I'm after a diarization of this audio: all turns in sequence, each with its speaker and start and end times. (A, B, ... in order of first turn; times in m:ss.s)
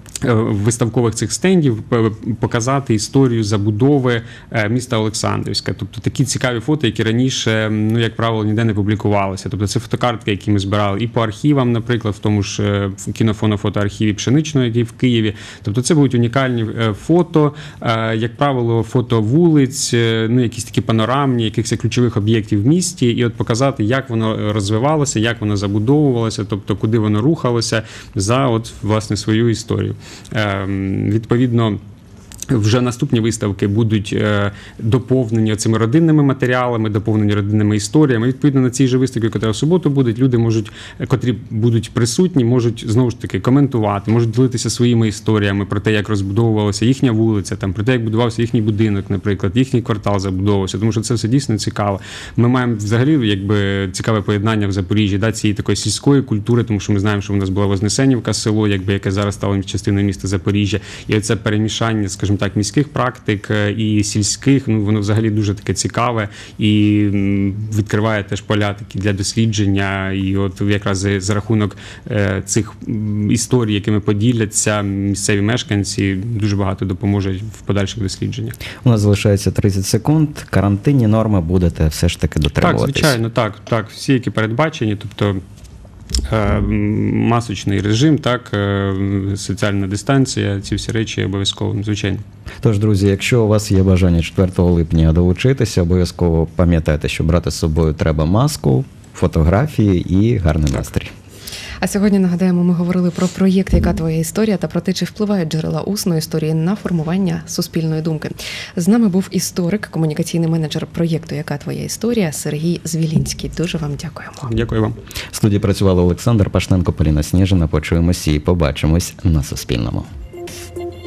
0:00.2-0:31.8 A
0:32.5-1:18.6 A
1:18.8-1:23.2 B
1:22.6-1:25.4 A
1:26.3-1:32.2 A
1:32.6-1:41.1 B
1:41.8-1:54.4 C
1:54.4-1:55.0 A
1:55.3-2:00.1 B